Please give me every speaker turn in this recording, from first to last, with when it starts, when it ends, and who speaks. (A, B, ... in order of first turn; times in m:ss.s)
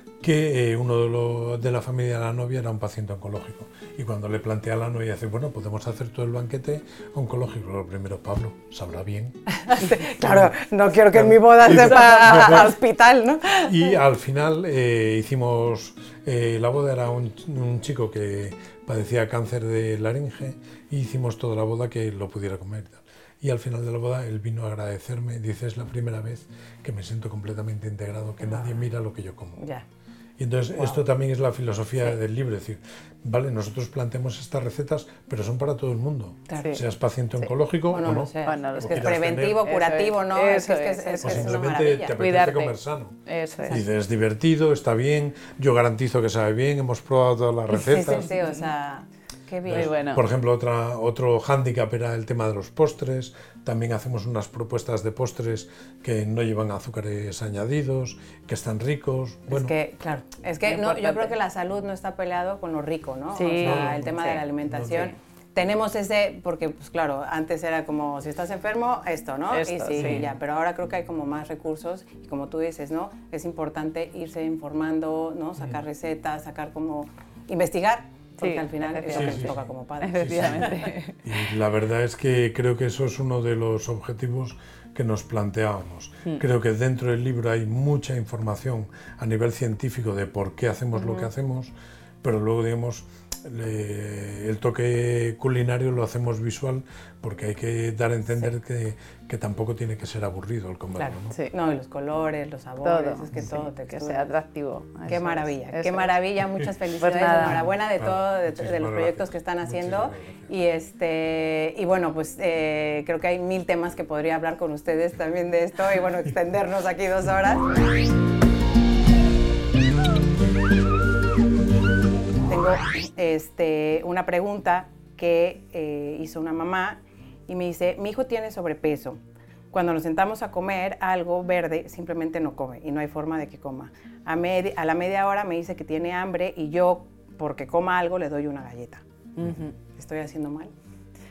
0:00.2-0:09.4 A
0:09.6-0:13.9 B
0:10.2-0:10.5 A
0:11.1-0:12.8 A
0:13.6-0:29.6 A
0:28.4-0:28.7 B
0:29.6-0:29.8 B
0:30.4-0:39.7 A
0:36.5-0:36.8 B
0:36.5-0:36.8 C
0:37.4-0:42.2 B
0:38.4-0:42.7 C
0:41.2-0:43.2 A
0:43.2-0:43.8 C
0:43.7-0:48.3 A
0:47.7-0:49.9 B
0:48.1-0:48.5 C
0:49.6-0:59.7 A
0:49.7-0:50.2 C
0:59.5-1:20.9 B
1:00.6-1:01.3 C
1:03.3-1:05.1 C
1:03.6-1:05.1 A
1:09.5-1:10.3 C
1:10.0-1:10.3 A
1:18.4-1:21.2 C
1:19.1-1:19.6 A
1:20.2-1:41.3 A
1:31.0-1:31.2 C
1:41.0-1:44.3 B
1:42.8-1:46.1 C
1:45.1-1:57.6 B
1:47.0-1:47.6 C
1:47.4-1:50.5 A
2:02.5-2:09.2 B
2:09.7-2:19.0 B
2:19.4-2:19.8 C
2:19.8-2:20.7 B